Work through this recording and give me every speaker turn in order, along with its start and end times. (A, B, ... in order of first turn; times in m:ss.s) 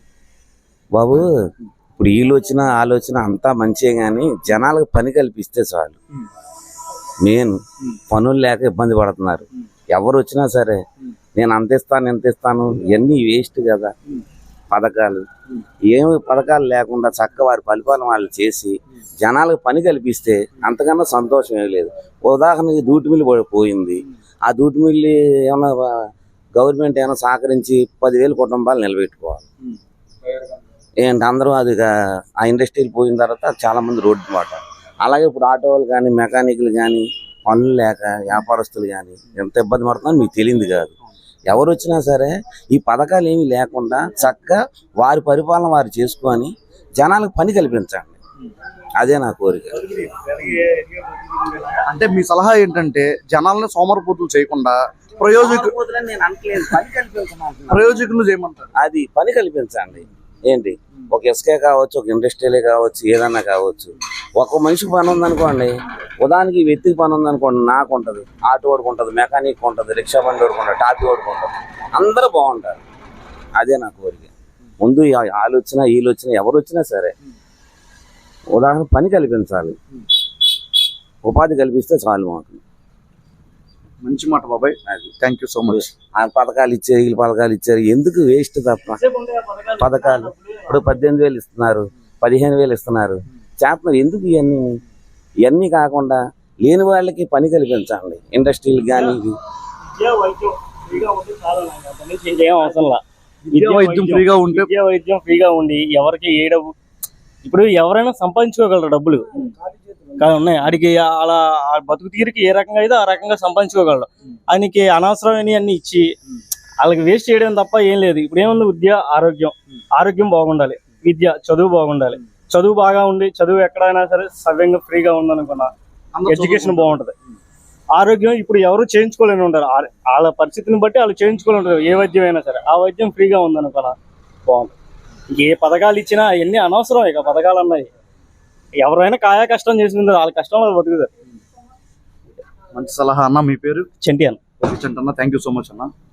0:01.0-0:01.3 A
0:01.9-0:06.0 A
0:07.2-0:07.5 A
0:08.1-0:10.8 A
0:11.4-0:13.9 A
0:14.7-0:15.2 A
0:15.9-0:25.7 A
0:26.6-0:29.4 A
0:31.0-0:31.8 A
0:32.4-0:40.9 A
0:41.5-0:48.2 A
0:49.0-0:49.8 A
0:49.8-0:51.8 B
0:51.9-0:55.7 C
0:55.3-0:58.0 A
0:57.7-0:58.7 C
0:58.8-1:12.8 A
1:13.6-1:14.3 A
1:14.8-1:17.1 A
1:18.5-1:19.8 A
1:21.2-1:22.6 A
1:24.0-1:25.8 C
1:25.7-1:29.0 A
1:29.0-1:30.9 B
1:29.8-1:34.8 A
1:35.4-1:39.4 A
1:39.9-1:46.7 B
1:43.5-1:44.7 C
1:47.4-1:49.5 B
1:50.2-1:56.1 B
1:56.8-2:05.7 B
2:06.1-2:07.0 C
2:06.3-2:07.1 B
2:08.0-2:14.7 B
2:15.3-2:17.9 B
2:18.8-2:21.1 B
2:22.7-2:23.9 C
2:24.0-2:24.4 B
2:24.6-2:25.9 C